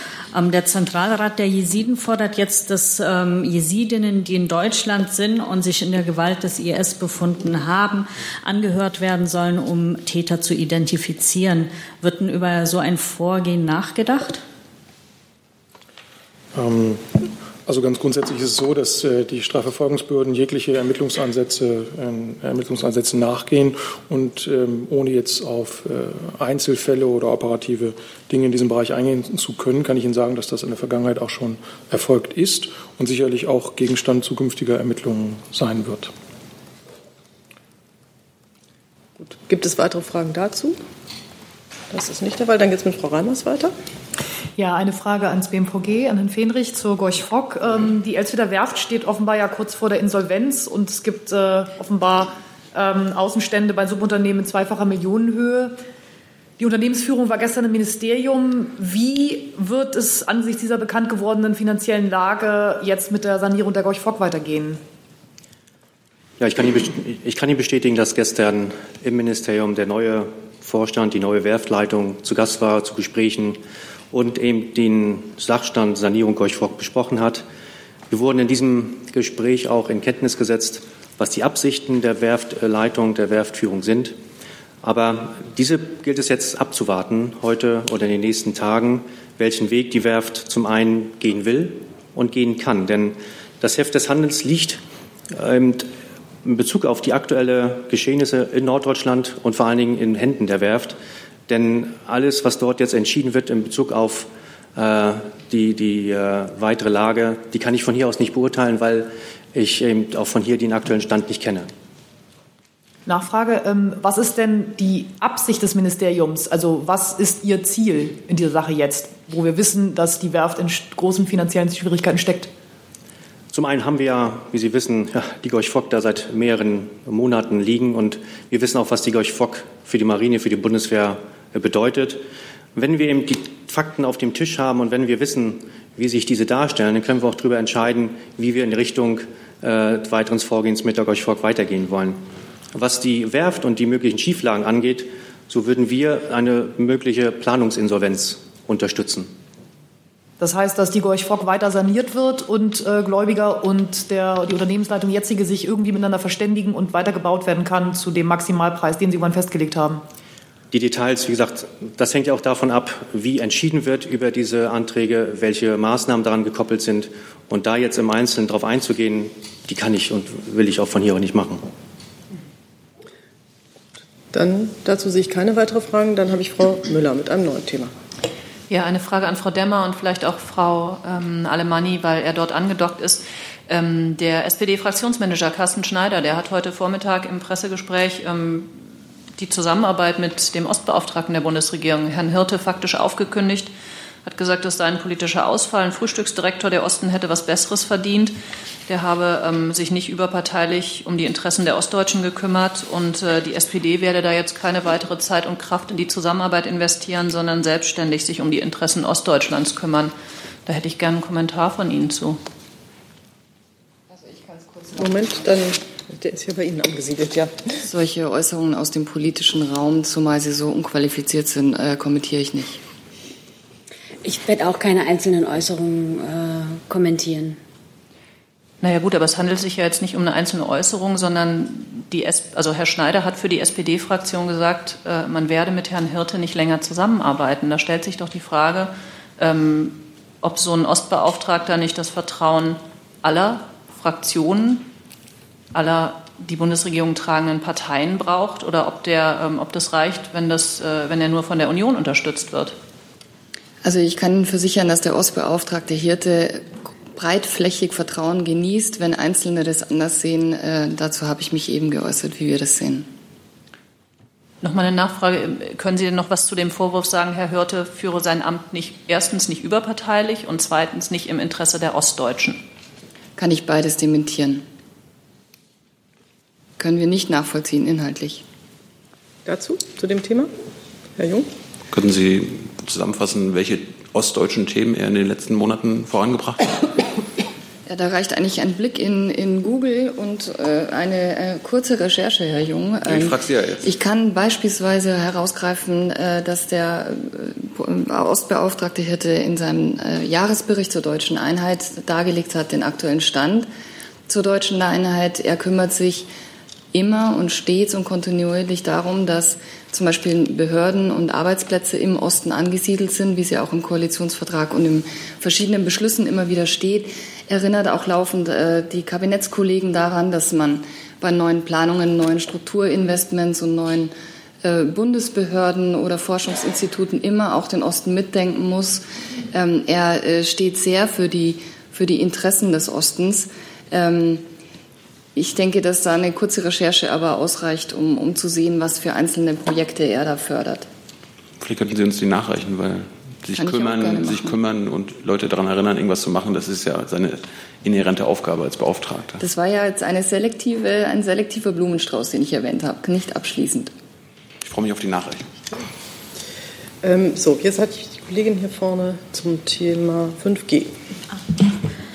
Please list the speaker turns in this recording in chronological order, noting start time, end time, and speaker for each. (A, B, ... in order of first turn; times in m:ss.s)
0:00.3-0:14.4 A
0:16.6-0:36.1 B
0:39.2-0:40.8 C
0:41.9-0:43.7 C
0:44.6-0:55.8 D
0:56.6-1:04.8 D
1:06.4-1:13.6 E
1:14.1-1:17.4 E
1:18.1-1:24.2 E
1:24.8-1:35.9 E
1:36.4-1:41.0 E
1:41.5-1:51.7 E
1:53.1-2:02.5 D
2:03.5-2:12.2 E
2:12.8-2:22.2 E
2:22.7-2:29.3 E
2:30.4-2:40.0 D
2:40.7-2:51.7 E
2:54.3-2:57.9 C
2:58.7-3:08.8 F
3:09.4-3:13.7 F
3:14.2-3:30.1 F
3:30.7-3:32.4 F
3:34.9-3:37.7 C
3:37.8-3:42.8 G
3:44.2-3:47.6 H
3:48.8-4:04.9 F
4:05.7-4:12.8 F
4:13.8-4:23.1 G
4:24.6-4:32.6 F
4:33.4-4:34.6 G
4:36.8-4:38.4 G
4:39.5-4:40.5 C
4:41.2-4:41.5 C
4:41.9-4:46.9 I
4:47.9-5:03.7 G
4:53.0-4:53.9 I
5:04.3-5:06.3 G
5:06.9-5:34.4 G
5:35.4-5:40.9 G
5:41.6-5:49.4 I
5:43.6-5:44.5 G
5:49.4-5:53.9 G
5:54.6-5:55.5 I
5:57.0-6:00.9 C